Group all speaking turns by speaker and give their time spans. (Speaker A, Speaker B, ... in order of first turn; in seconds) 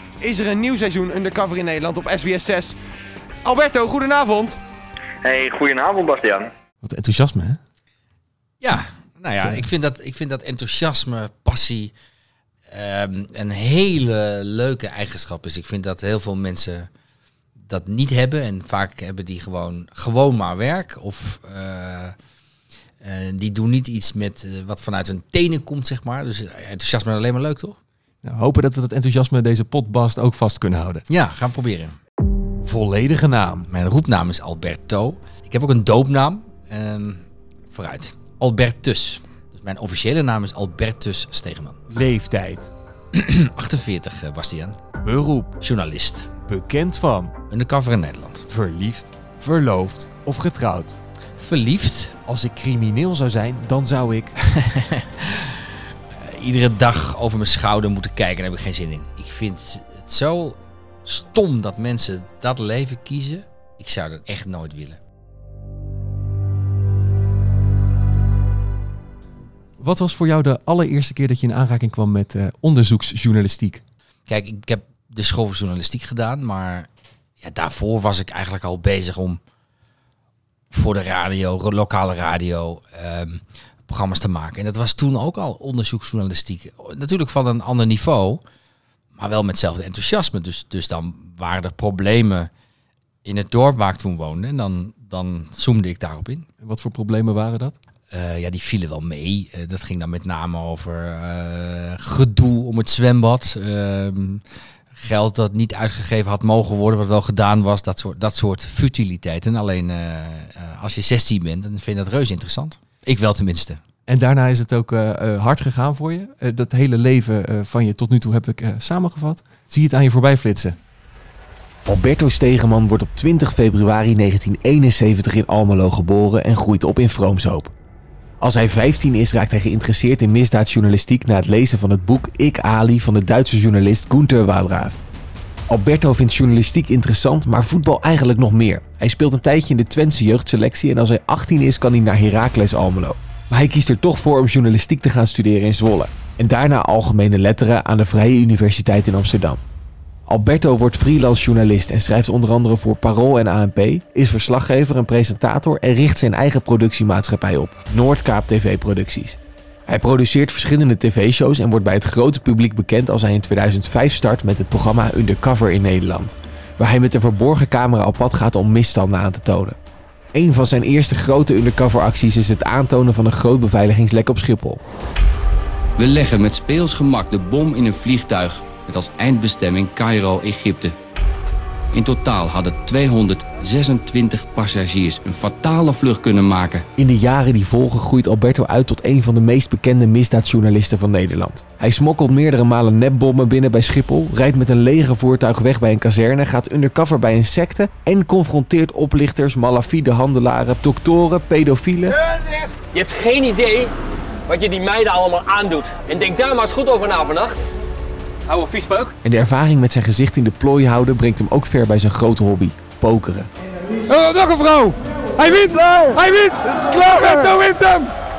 Speaker A: 0.2-2.7, 3.4-4.6, 6.8-7.6, 9.4-9.6, 28.2-31.0, 32.6-33.7, 41.9-42.7, 45.0-45.5, 46.5-47.3, 48.5-50.9, 52.3-54.3, 69.8-73.8, 96.6-97.8, 114.1-120.8
Speaker B: 5.3-6.3, 176.0-180.9, 181.9-186.8
Speaker C: 5.4-6.3, 202.2-203.9, 204.5-207.6, 208.5-209.1
Speaker D: 8.6-11.9, 12.7-16.9, 17.6-22.1, 23.0-27.8, 31.1-32.0, 33.7-41.9, 43.1-44.8, 45.6-46.3, 47.5-48.5, 51.4-52.1, 54.4-55.6, 56.1-65.0, 74.3-76.9, 77.4-79.4, 80.7-88.4, 89.1-92.5, 93.2-96.5, 98.1-104.4, 105.0-113.8
Speaker E: 121.8-127.7, 128.4-135.0, 135.7-149.6, 150.2-169.8, 170.3-174.8, 186.9-202.2, 209.2-213.5
Speaker F: 214.1-218.1